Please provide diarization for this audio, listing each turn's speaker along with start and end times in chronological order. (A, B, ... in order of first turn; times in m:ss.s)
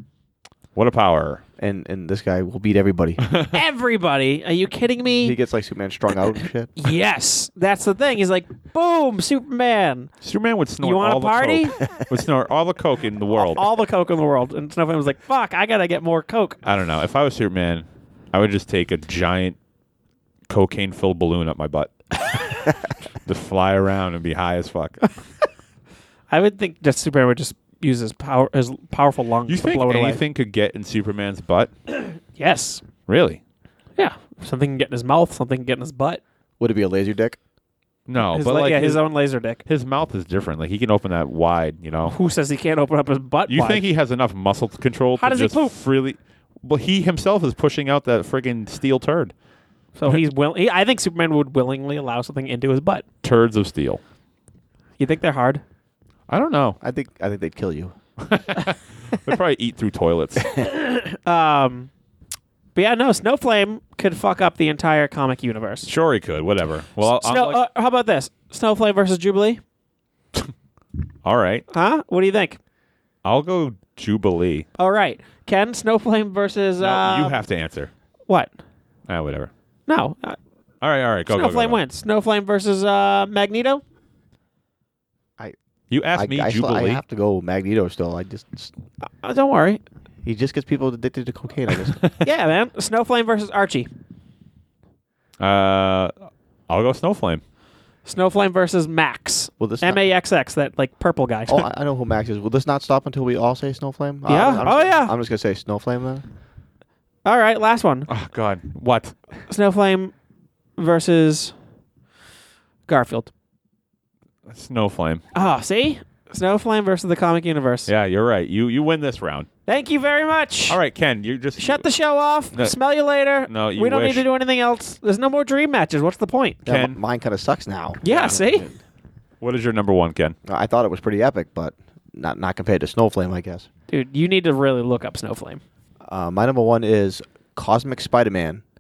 0:00.7-0:01.4 A
0:01.6-0:03.2 B
0:03.5-0:05.4 C
0:05.2-0:06.7 B
0:06.8-0:10.1 C
0:10.2-0:13.6 A
0:10.8-0:11.8 C
0:13.4-0:16.6 C
0:16.6-0:19.6 A
0:20.5-0:22.7 A
0:23.2-0:25.0 A
0:26.3-0:30.2 C
0:29.5-0:31.7 A
0:32.4-0:32.8 C
0:33.1-0:33.4 A
0:34.0-0:36.2 C
0:36.6-0:37.4 B
0:38.1-0:39.0 A
0:38.3-0:39.6 C
0:39.6-0:42.2 A
0:42.0-0:43.8 C
0:43.5-0:49.3 A
0:45.2-0:45.7 C
0:50.0-0:53.0 C
0:53.2-0:54.0 A
0:55.0-0:55.6 C
0:56.3-0:56.8 A
0:56.8-0:57.9 B
0:58.2-1:00.5 A
1:00.6-1:01.9 C
1:02.7-1:05.9 C
1:05.8-1:07.6 A
1:07.0-1:09.6 C
1:11.2-1:11.6 A
1:11.7-1:12.6 C
1:13.2-1:14.7 A
1:14.8-1:17.4 C
1:16.8-1:17.9 A
1:18.3-1:18.5 C
1:19.1-1:19.5 A
1:19.9-1:20.4 C
1:20.8-1:21.8 A
1:21.3-1:23.8 C
1:25.9-1:27.0 A
1:26.1-1:28.7 B
1:29.2-1:29.8 C
1:30.2-1:32.0 B
1:32.2-1:33.9 C
1:35.4-1:37.4 A
1:38.0-1:41.6 C
1:39.6-1:40.0 B
1:41.5-1:46.2 B
1:44.2-1:45.1 C
1:47.2-1:48.1 C
1:48.1-1:49.1 A
1:49.5-1:50.1 C
1:50.8-1:51.5 C
1:52.9-1:53.3 C
1:54.4-1:55.2 A
1:55.3-1:57.9 C
1:57.9-1:59.5 A
1:59.7-2:00.8 C
2:00.7-2:01.8 A
2:01.6-2:06.6 C
2:03.4-2:04.2 A
2:06.6-2:08.5 B
2:06.6-2:07.0 A
2:08.0-2:08.7 C
2:08.0-2:08.3 A
2:09.4-2:10.4 A
2:10.4-2:13.7 B
2:13.9-2:15.6 C
2:16.0-2:18.6 B